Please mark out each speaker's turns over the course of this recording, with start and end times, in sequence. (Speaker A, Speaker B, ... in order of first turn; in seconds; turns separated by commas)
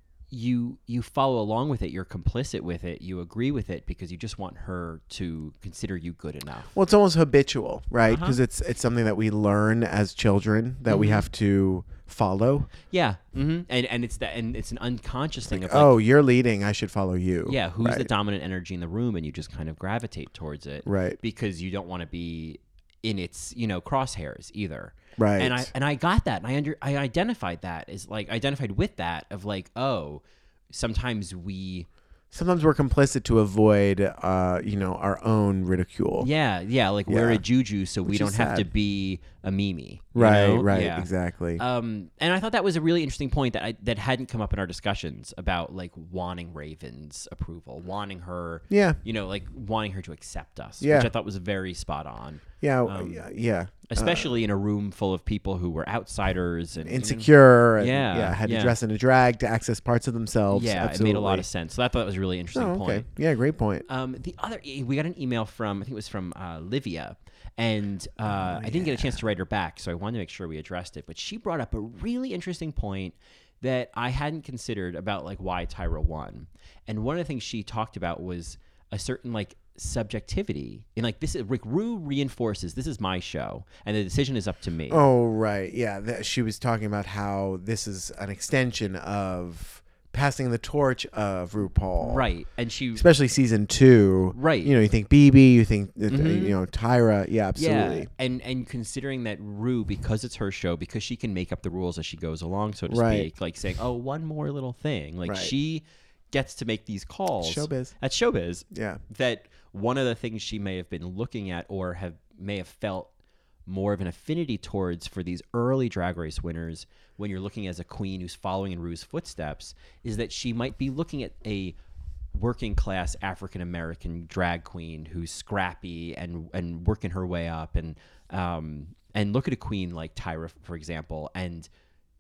Speaker A: 0.3-6.7, Speaker B: 6.7-12.7, Speaker A: 8.1-8.4, Speaker A: 10.9-11.2, Speaker A: 12.9-16.0, Speaker B: 15.5-18.1, Speaker A: 17.4-31.9, Speaker B: 20.8-21.2, Speaker B: 25.2-25.7, Speaker B: 32.3-36.3, Speaker A: 36.2-53.2, Speaker B: 37.1-37.4, Speaker B: 38.0-38.7, Speaker B: 40.1-41.6, Speaker B: 48.7-49.0, Speaker B: 50.8-51.1, Speaker B: 52.6-54.4, Speaker A: 53.9-58.8, Speaker B: 56.8-61.5, Speaker A: 60.5-63.1, Speaker B: 62.5-63.9, Speaker A: 63.9-85.0, Speaker B: 68.2-69.2, Speaker B: 84.9-92.3, Speaker A: 92.0-93.0, Speaker B: 92.9-98.1, Speaker A: 94.3-94.7, Speaker A: 96.1-96.6, Speaker A: 97.5-113.1, Speaker B: 102.9-103.3, Speaker B: 105.2-105.5, Speaker B: 107.4-108.0, Speaker B: 108.7-109.0, Speaker A: 113.7-121.7, Speaker A: 122.3-131.7